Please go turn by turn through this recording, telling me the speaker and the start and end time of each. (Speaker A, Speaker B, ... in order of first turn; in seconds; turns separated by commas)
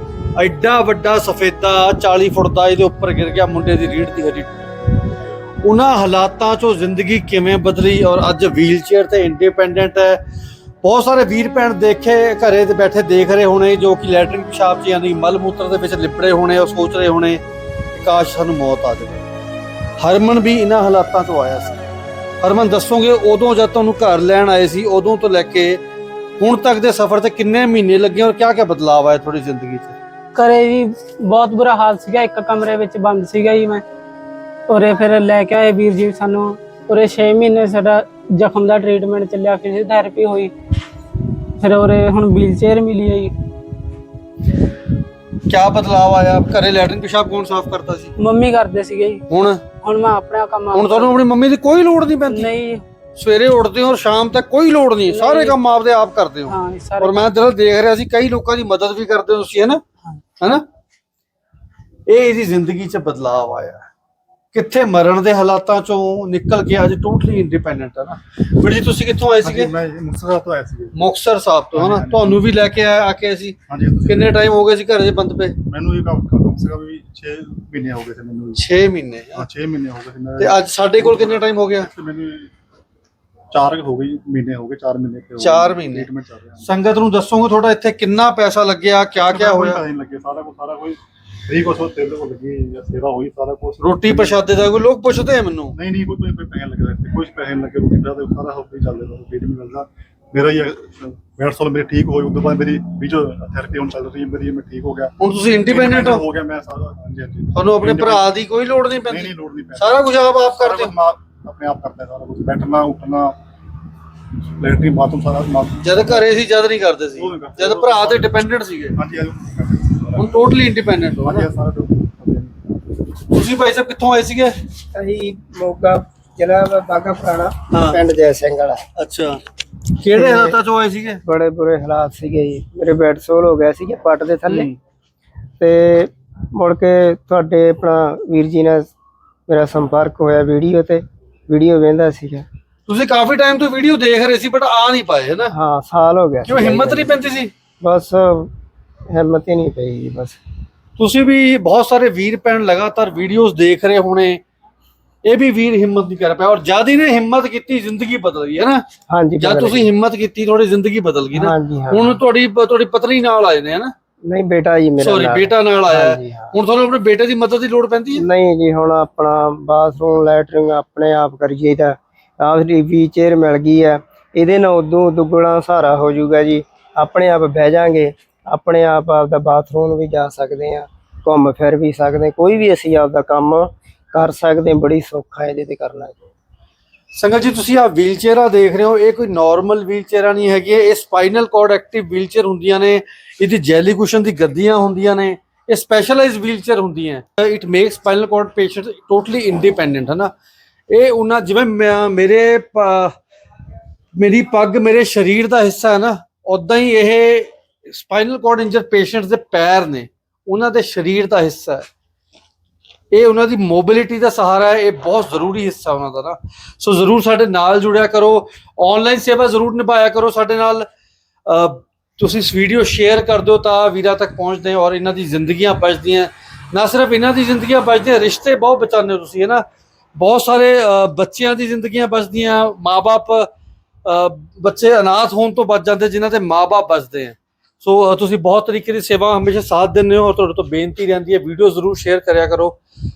Speaker A: 0.3-4.8, Speaker A: 5.6-10.2, Speaker A: 10.8-17.4, Speaker A: 17.9-19.2, Speaker A: 20.0-21.8, Speaker A: 22.4-25.8, Speaker A: 26.4-30.0, Speaker B: 30.3-33.8, Speaker B: 34.7-40.5, Speaker B: 41.6-43.3, Speaker A: 45.5-48.1, Speaker B: 48.2-49.2, Speaker A: 49.3-49.6, Speaker B: 49.8-51.1, Speaker A: 50.7-52.5, Speaker B: 52.3-52.8, Speaker A: 53.2-59.8, Speaker B: 55.1-55.5, Speaker B: 56.5-57.2, Speaker A: 60.4-60.6, Speaker A: 62.1-63.8, Speaker A: 64.5-69.7, Speaker C: 69.4-71.1, Speaker A: 70.9-75.6, Speaker C: 71.7-72.5, Speaker C: 73.7-74.4, Speaker C: 75.6-78.6, Speaker A: 78.5-79.5, Speaker C: 79.3-82.5, Speaker A: 80.4-81.9, Speaker C: 83.5-86.7, Speaker A: 85.4-86.1, Speaker A: 86.6-89.8, Speaker C: 89.2-94.4, Speaker A: 93.8-95.7, Speaker C: 95.7-108.4, Speaker A: 105.2-106.2, Speaker A: 107.5-110.9, Speaker C: 109.0-113.3, Speaker C: 114.6-116.3, Speaker A: 115.8-119.0, Speaker C: 117.2-118.3, Speaker C: 118.9-120.5, Speaker A: 120.2-121.5, Speaker C: 121.2-122.7, Speaker A: 123.3-124.5, Speaker D: 124.9-128.8, Speaker A: 127.7-128.0, Speaker A: 128.9-129.4, Speaker A: 130.0-131.2, Speaker D: 130.1-130.6, Speaker D: 131.2-134.7, Speaker A: 134.5-134.8, Speaker D: 135.6-138.9, Speaker D: 139.5-142.4, Speaker A: 142.9-145.5, Speaker D: 145.5-148.5, Speaker A: 146.4-147.5, Speaker D: 149.1-150.4, Speaker A: 151.0-154.4, Speaker A: 155.2-158.8, Speaker D: 159.1-159.9, Speaker A: 159.4-163.9, Speaker D: 161.3-162.2, Speaker D: 164.3-166.5, Speaker A: 165.0-168.2, Speaker D: 168.1-186.2, Speaker A: 187.2-200.3, Speaker A: 200.9-203.1, Speaker A: 204.2-211.8, Speaker A: 213.1-220.9, Speaker A: 221.4-229.6, Speaker A: 230.2-233.5, Speaker A: 234.0-242.8